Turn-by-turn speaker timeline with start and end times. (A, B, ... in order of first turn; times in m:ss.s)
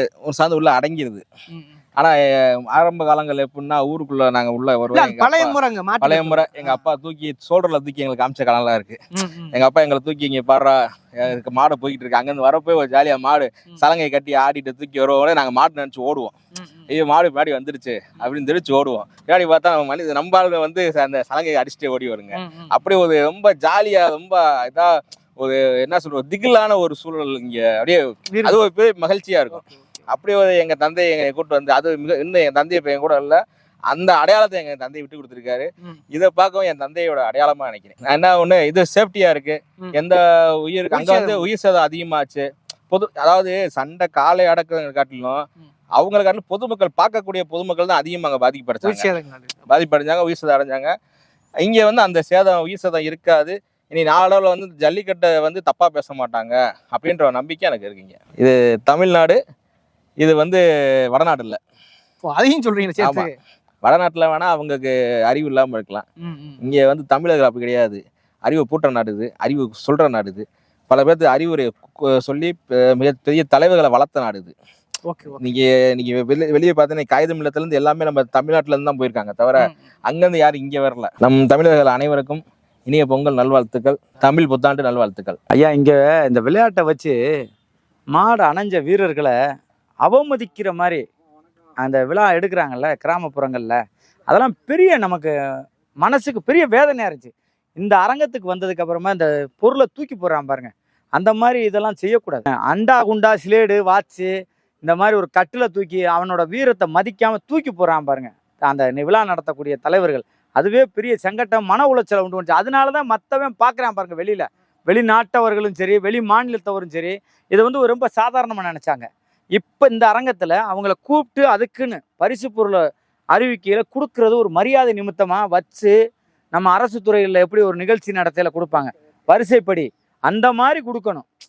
0:00.2-0:01.2 A
0:02.0-0:09.0 A
0:04.9-0:06.8 B
0:09.1-0:09.5 B
0:09.5-0:16.3 A
0:16.9-0:45.4 A
0:22.4-0:22.7 B
0:28.3-0:28.6 B
0:29.5-0:29.9 B
0:40.9-0:41.5 B
0:46.0-0:49.1 A
0:48.8-0:49.6 B
0:49.7-0:50.9 A
0:51.6-0:59.4 A
1:00.2-1:01.6 A
1:02.2-1:03.3 B
1:03.0-1:03.3 A
1:03.8-1:06.0 A
1:06.2-1:06.6 B
1:06.6-1:14.5 A
1:15.0-1:15.4 B
1:15.4-1:25.4 A
1:25.5-1:27.1 C
1:28.2-1:29.3 C
1:30.0-1:31.0 C
1:31.8-1:35.3 C
1:36.0-1:44.3 C
1:44.8-2:02.8 C
2:03.3-2:05.9 C
2:06.5-2:11.2 C